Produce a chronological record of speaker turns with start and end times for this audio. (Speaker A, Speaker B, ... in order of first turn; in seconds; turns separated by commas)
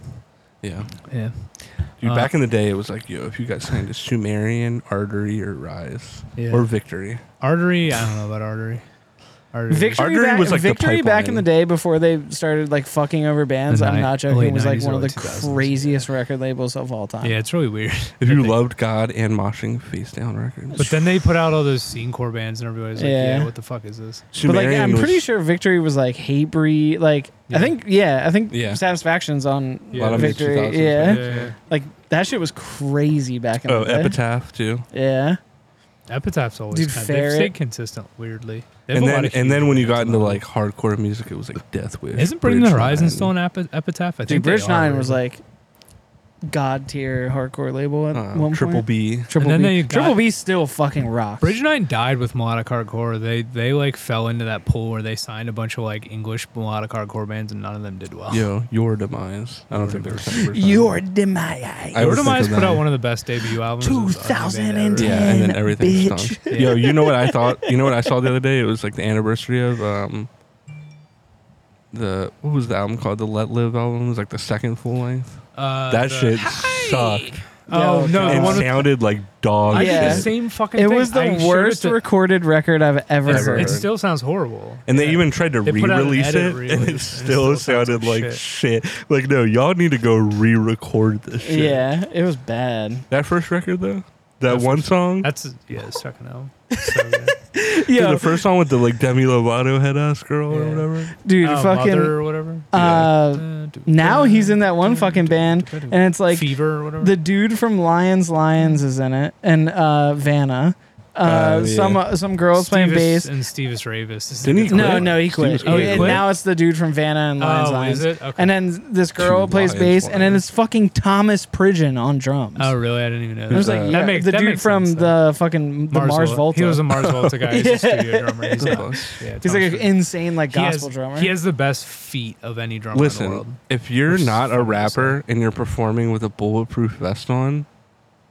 Speaker A: 0.6-0.9, Speaker B: 1.1-2.3, Speaker A: 2.0-7.2, Speaker B: 6.4-6.7, Speaker B: 7.4-8.9, Speaker B: 9.5-10.1, Speaker C: 9.7-17.3, Speaker A: 10.0-11.5, Speaker B: 13.7-16.1, Speaker B: 17.2-18.6, Speaker A: 18.2-20.9, Speaker B: 20.8-24.3, Speaker C: 23.0-23.5, Speaker A: 24.3-25.2, Speaker C: 24.4-34.2, Speaker B: 27.5-27.7, Speaker A: 28.5-28.8, Speaker B: 29.9-30.5, Speaker A: 30.0-31.5, Speaker B: 31.0-31.6, Speaker A: 33.7-34.9, Speaker C: 34.9-35.4, Speaker B: 36.1-40.4, Speaker C: 36.7-37.5, Speaker A: 38.9-43.3, Speaker B: 42.2-45.2, Speaker C: 44.3-45.4, Speaker C: 46.5-51.6, Speaker A: 48.1-49.3, Speaker B: 49.4-50.2, Speaker B: 51.4-58.5, Speaker A: 58.3-61.0, Speaker B: 59.7-60.4, Speaker C: 60.3-62.5, Speaker A: 61.9-62.9, Speaker B: 62.0-65.4, Speaker C: 63.8-68.1, Speaker A: 65.0-70.3, Speaker B: 66.5-66.9, Speaker A: 71.9-77.5, Speaker B: 75.5-78.9, Speaker C: 77.7-78.8, Speaker A: 78.2-80.3, Speaker B: 79.7-82.0, Speaker C: 79.7-83.8, Speaker A: 83.3-83.9, Speaker B: 83.3-88.4, Speaker A: 84.9-91.9, Speaker C: 91.4-93.1, Speaker A: 93.1-95.3, Speaker B: 94.5-97.3, Speaker C: 96.7-98.4, Speaker A: 97.8-101.2, Speaker B: 100.5-100.9, Speaker C: 101.2-113.3, Speaker B: 101.4-107.2, Speaker A: 102.7-103.2, Speaker A: 111.2-112.0, Speaker B: 112.5-116.3, Speaker A: 114.4-116.3, Speaker C: 114.7-122.7, Speaker B: 117.4-118.5, Speaker A: 119.2-120.4, Speaker B: 122.6-125.2, Speaker C: 123.5-128.9, Speaker A: 123.5-124.1, Speaker B: 125.9-135.2, Speaker A: 126.9-127.5, Speaker A: 128.6-129.2, Speaker C: 129.4-131.4, Speaker A: 132.9-137.7